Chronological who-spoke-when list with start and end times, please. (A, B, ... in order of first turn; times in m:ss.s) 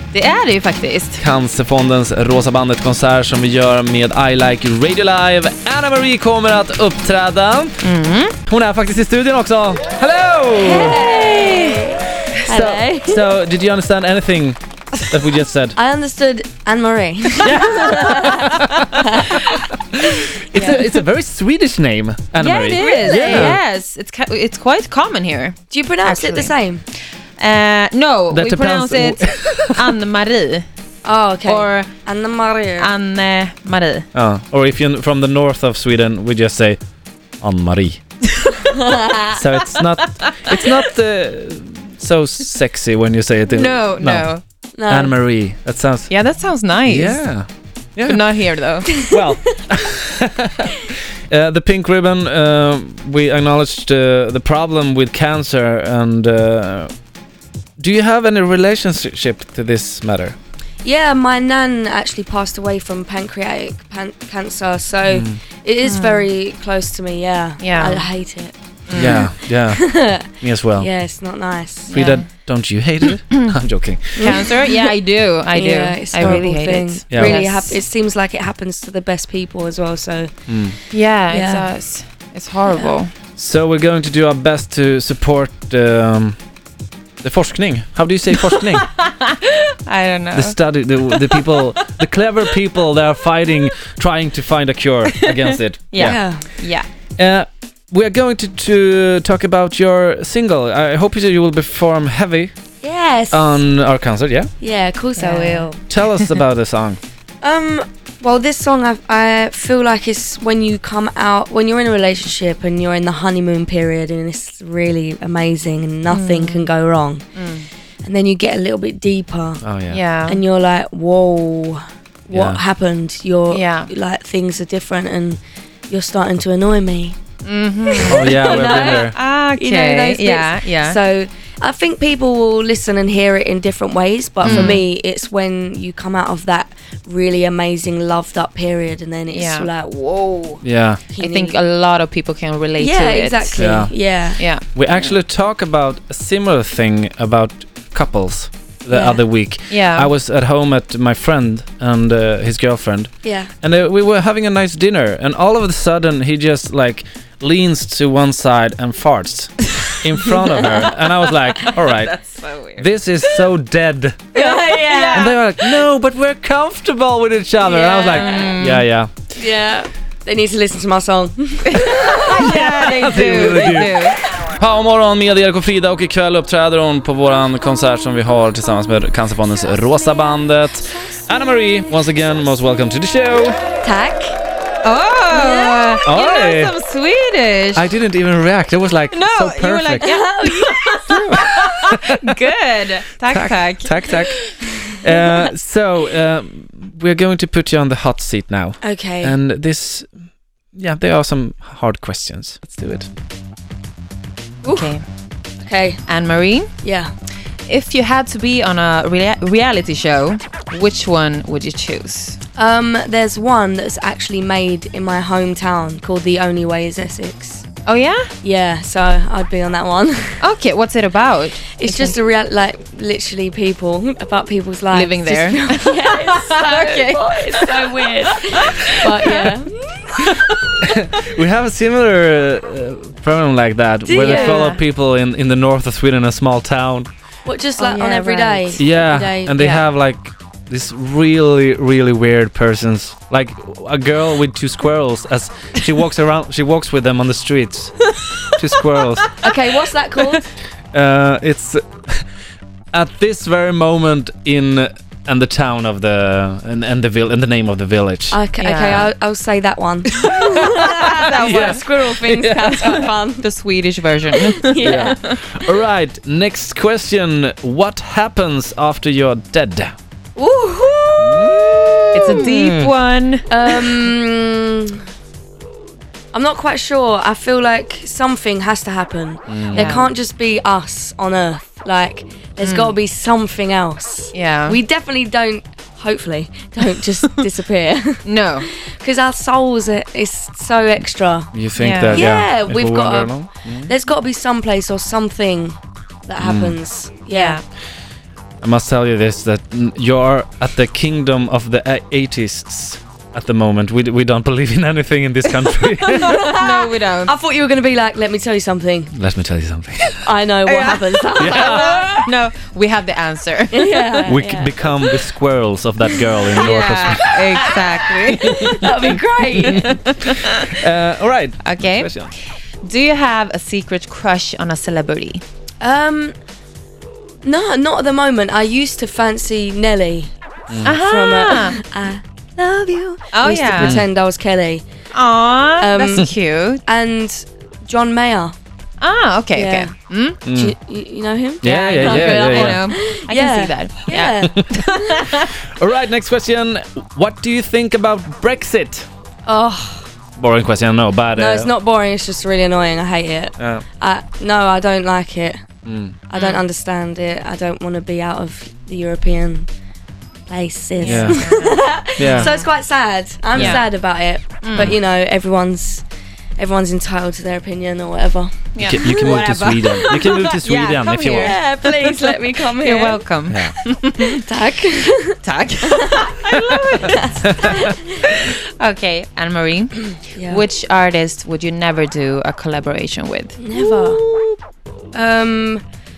0:00.1-0:01.2 A
0:01.2-0:07.8 B
0:07.8-0:08.4 A
0:08.5-0:11.0 B
0:10.6-0:13.3 C
0:10.9-0:11.8 A
0:12.4-0:15.8 B
0:15.8-0:19.7 C
0:17.4-0:23.6 B
0:20.5-0:20.9 C
0:22.4-0:26.6 A
0:22.7-0:23.6 C
0:25.7-0:26.8 C
0:27.4-0:30.6 A
0:28.3-0:30.0 B
0:31.0-0:32.9 C
0:31.5-0:31.9 A
0:32.8-0:34.1 A
0:34.1-0:36.8 B
0:37.4-0:38.0 B
0:38.4-0:38.6 A
0:38.7-0:39.4 C
0:39.3-0:44.3 B
0:43.5-0:44.4 A
0:44.8-0:45.2 C
0:44.9-0:46.1 B
0:46.1-0:47.2 A
0:46.8-0:48.3 B
0:48.0-0:49.1 A
0:48.9-0:49.6 C
0:49.0-0:56.9 B
0:57.8-1:00.4 B
1:00.8-1:12.0 C
1:05.1-1:05.4 B
1:05.8-1:06.3 A
1:07.6-1:08.1 A
1:08.9-1:09.3 A
1:08.9-1:10.9 B
1:11.9-1:12.3 A
1:11.9-1:14.5 B
1:14.2-1:14.9 C
1:14.2-1:17.8 A
1:15.5-1:20.3 C
1:17.1-1:17.4 B
1:20.5-1:20.8 B
1:20.9-1:23.1 A
1:21.3-1:21.7 C
1:22.7-1:23.0 C
1:23.4-1:26.4 B
1:27.2-1:28.9 B
1:28.6-1:31.8 A
1:30.3-1:36.3 B
1:35.1-1:36.9 A
1:36.0-1:36.5 C
1:37.2-1:42.5 B
1:42.8-1:43.6 C
1:43.3-1:44.5 B
1:44.6-1:45.8 C
1:45.2-1:46.4 A
1:45.9-1:47.0 B
1:47.4-1:57.2 C
1:56.1-1:56.7 A
1:57.4-1:57.7 A
1:58.0-1:59.6 C
1:59.6-2:00.0 B
1:59.9-2:00.4 A
2:00.3-2:07.2 C
2:02.3-2:02.6 B
2:03.5-2:03.9 A
2:07.4-2:11.0 A
2:07.9-2:21.6 C
2:08.1-2:09.2 B
2:14.4-2:14.8 B
2:14.4-2:14.8 A
2:19.3-2:19.7 A
2:20.6-2:21.0 B
2:21.2-2:23.6 A
2:22.8-2:24.4 C
2:23.6-2:23.9 B
2:24.4-2:24.8 A
2:24.7-2:42.2 B
2:28.9-2:29.2 C
2:29.7-2:30.1 A
2:33.2-2:33.5 C
2:40.6-2:40.9 A
2:41.6-2:42.8 A
2:42.8-2:44.3 B
2:44.3-2:45.3 C
2:44.3-2:45.4 A
2:45.1-2:49.1 B
2:47.6-2:48.5 C
2:47.9-2:48.9 A
2:49.3-2:54.2 C
2:51.7-2:54.2 A
2:52.3-3:03.6 B
3:03.8-3:04.4 C
3:04.8-3:07.8 A
3:05.3-3:06.0 C
3:06.0-3:06.7 B
3:07.8-3:10.1 B
3:09.1-3:14.1 A
3:10.0-3:11.7 C
3:11.3-3:12.2 B
3:13.3-3:20.1 B
3:14.8-3:15.5 C
3:18.8-3:19.4 C
3:20.7-3:23.1 B
3:24.6-3:25.0 C
3:24.6-3:25.0 A
3:25.6-3:26.0 C
3:26.1-3:26.7 A
3:26.8-3:27.1 C
3:27.7-3:32.4 A
3:32.6-3:37.7 C
3:37.9-3:38.3 A
3:38.4-3:40.4 C
3:40.4-3:42.2 A
3:41.7-3:50.7 C
3:44.9-3:50.6 A
3:50.8-3:57.1 B
3:54.0-3:54.8 C
3:54.2-3:54.8 A
3:57.4-3:59.9 C
3:57.8-3:58.9 A
3:58.8-4:09.3 B
4:09.4-4:10.5 C
4:10.9-4:12.3 B
4:12.9-4:18.4 B
4:18.3-4:23.5 C
4:18.6-4:19.1 A
4:20.2-4:21.9 A
4:21.3-4:23.0 B
4:22.8-4:25.4 A
4:24.3-4:25.7 C
4:24.8-4:30.0 B
4:30.4-4:32.5 C
4:31.2-4:33.0 B
4:32.1-4:34.0 A
4:33.5-4:35.0 C
4:36.3-4:51.5 C
4:39.5-4:40.0 B
4:39.7-4:40.1 A
4:42.6-4:43.0 A
4:44.3-4:44.8 A
4:48.2-4:48.7 A
4:51.5-4:53.9 B
4:51.8-4:52.3 A
4:52.1-4:57.6 C
4:56.4-4:56.8 B
4:57.3-4:57.6 A
4:58.6-5:06.4 B
5:06.1-5:09.1 C
5:06.1-5:07.3 A
5:09.1-5:10.3 B
5:10.2-5:12.3 C
5:10.7-5:14.3 A
5:11.4-5:12.2 B
5:13.7-5:15.2 C
5:14.3-5:17.7 B
5:16.5-5:19.0 A
5:17.3-5:20.4 C
5:18.3-5:18.7 B
5:19.6-5:22.3 B
5:19.6-5:20.7 A
5:21.6-5:22.3 A
5:22.8-5:25.4 A
5:25.8-5:26.3 C
5:27.4-5:34.8 C
5:30.7-5:31.0 B
5:30.8-5:31.8 A
5:33.3-5:34.0 A
5:33.8-5:34.0 B
5:35.1-5:36.8 A
5:35.8-5:38.5 C
5:39.0-5:40.4 A
5:39.5-5:39.9 C
5:40.4-5:40.8 B
5:40.5-5:45.2 C
5:41.6-5:42.9 B
5:41.6-5:45.5 A
5:44.4-5:49.1 B
5:49.5-5:50.1 C
5:50.4-5:51.7 B
5:51.3-5:55.6 C
5:53.6-5:53.8 B
5:55.8-5:56.2 B
5:56.3-5:59.7 C
5:56.3-5:56.6 A
6:00.5-6:06.0 C
6:01.0-6:02.7 A
6:01.1-6:01.5 B
6:02.2-6:02.5 B
6:03.6-6:03.8 A
6:03.6-6:03.8 B
6:04.6-6:05.0 A
6:06.6-6:09.4 C
6:08.8-6:14.4 A
6:08.8-6:11.6 B
6:11.3-6:13.2 C
6:13.5-6:13.8 B
6:14.2-6:18.2 C
6:15.4-6:24.6 A
6:17.5-6:17.8 B
6:20.4-6:20.7 C
6:23.6-6:24.2 C
6:25.1-6:25.8 C